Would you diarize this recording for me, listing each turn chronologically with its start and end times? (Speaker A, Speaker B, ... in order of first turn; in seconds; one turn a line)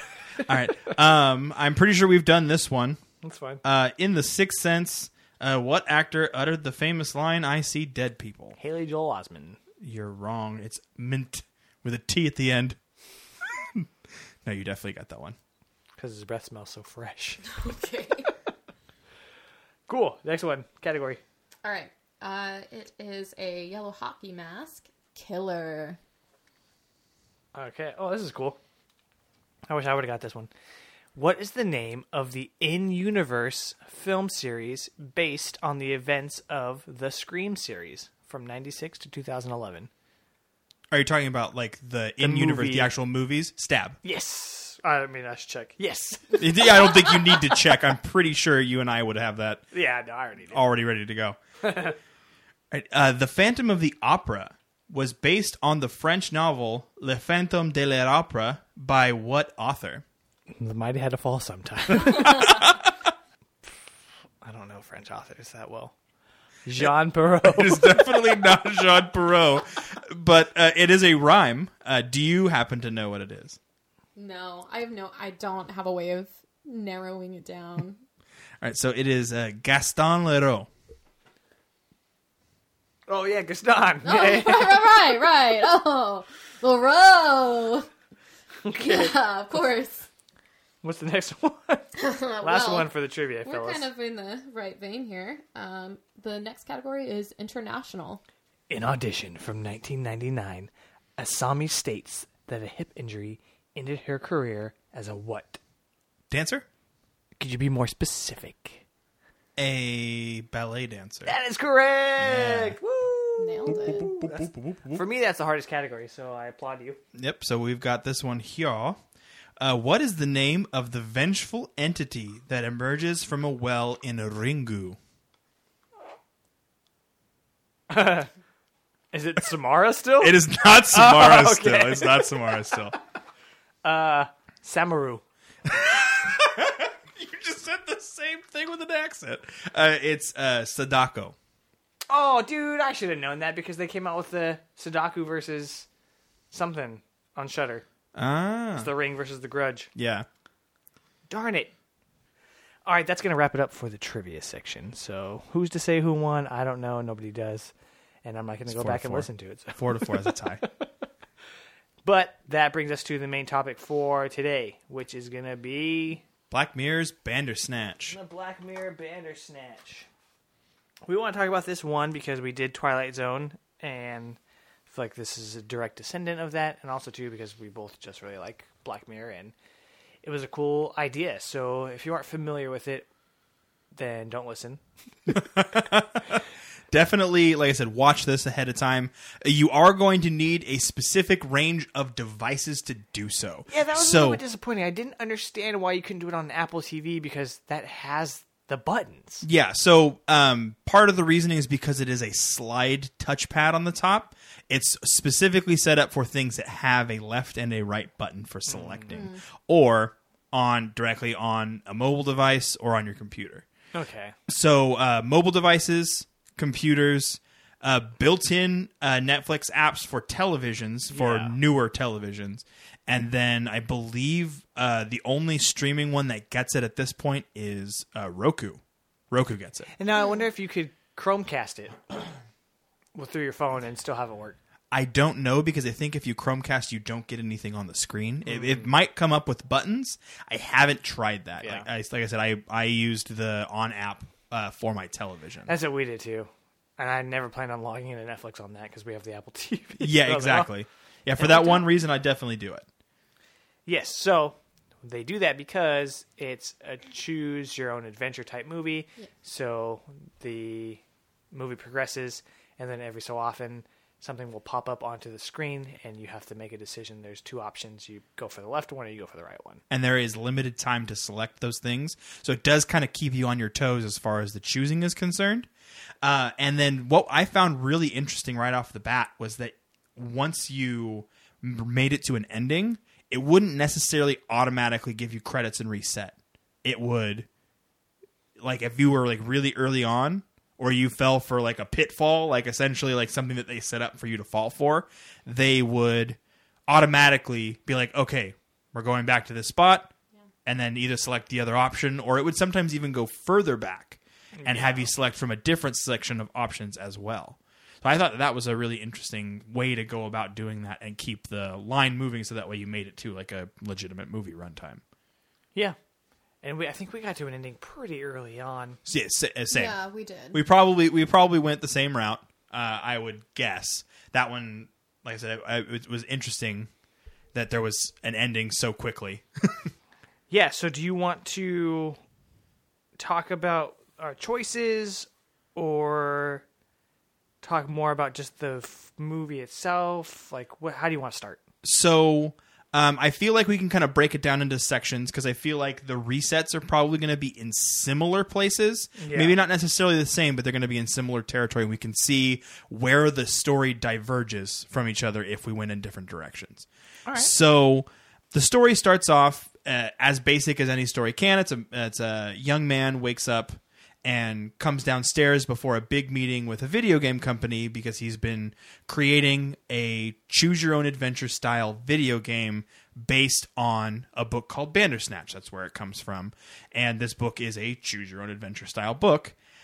Speaker A: 0.3-3.0
Speaker B: 3.2-3.6
Speaker A: 3.6-8.6
Speaker B: 8.6-9.6
Speaker A: 9.8-12.8
Speaker A: 13.6-13.9
Speaker A: 14.4-15.4
Speaker B: 16.0-17.4
Speaker C: 17.5-18.3
Speaker B: 19.9-21.2
Speaker C: 21.6-26.0
Speaker B: 27.5-28.6
Speaker B: 29.7-30.5
Speaker B: 31.1-39.9
Speaker A: 40.9-44.0
Speaker B: 42.2-42.9
Speaker B: 44.0-47.5
Speaker A: 46.4-49.6
Speaker B: 49.7-50.6
Speaker A: 50.5-51.4
Speaker B: 51.6-52.0
Speaker A: 52.7-60.0
Speaker B: 60.5-62.7
Speaker A: 62.1-63.1
Speaker B: 64.4-65.9
Speaker B: 66.7-68.0
Speaker A: 67.4-73.6
Speaker C: 74.2-78.0
Speaker A: 78.6-80.7
Speaker B: 83.1-85.0
Speaker C: 84.0-87.9
Speaker B: 88.6-89.1
Speaker C: 88.7-90.1
Speaker B: 90.8-93.9
Speaker C: 91.9-92.9
Speaker C: 93.4-98.2
Speaker B: 98.7-105.6
Speaker A: 106.3-106.6
Speaker B: 107.4-108.8
Speaker A: 109.6-111.3
Speaker B: 111.2-117.0
Speaker A: 112.2-112.8
Speaker C: 113.4-114.1
Speaker A: 113.7-115.0
Speaker A: 117.1-119.0
Speaker A: 119.6-125.0
Speaker B: 127.9-128.3
Speaker B: 129.1-133.0
Speaker A: 130.2-132.9
Speaker B: 133.8-135.2
Speaker A: 135.7-141.3
Speaker B: 142.1-145.9
Speaker B: 146.5-147.8
Speaker A: 148.1-148.9
Speaker B: 148.8-149.9
Speaker A: 149.9-150.3
Speaker B: 151.3-151.7
Speaker B: 152.8-157.7
Speaker B: 158.2-160.9
Speaker A: 158.7-160.6
Speaker B: 162.0-166.2
Speaker A: 166.5-168.2
Speaker B: 168.1-170.1
Speaker B: 171.0-179.5
Speaker B: 180.2-183.1
Speaker B: 183.9-184.8
Speaker A: 185.3-194.4
Speaker B: 193.7-199.4
Speaker A: 199.4-213.7
Speaker B: 208.7-209.2
Speaker C: 209.1-209.4
Speaker B: 213.9-214.3
Speaker A: 214.5-229.9
Speaker B: 221.1-221.6
Speaker B: 230.0-232.3
Speaker B: 233.1-234.6
Speaker A: 234.9-245.7
Speaker B: 238.4-238.9
Speaker B: 245.7-250.7
Speaker A: 250.0-252.8
Speaker B: 251.4-251.8
Speaker B: 253.8-269.8
Speaker A: 269.9-275.7
Speaker A: 276.2-287.5
Speaker A: 288.6-300.1
Speaker A: 300.6-315.0
Speaker B: 304.6-305.1
Speaker B: 316.6-319.0
Speaker A: 319.0-320.0
Speaker C: 319.7-320.6
Speaker A: 320.5-326.9
Speaker A: 327.5-329.9
Speaker B: 330.5-332.2
Speaker B: 333.2-336.6
Speaker B: 337.6-341.6
Speaker A: 341.8-379.6
Speaker B: 349.2-349.6
Speaker B: 357.2-357.5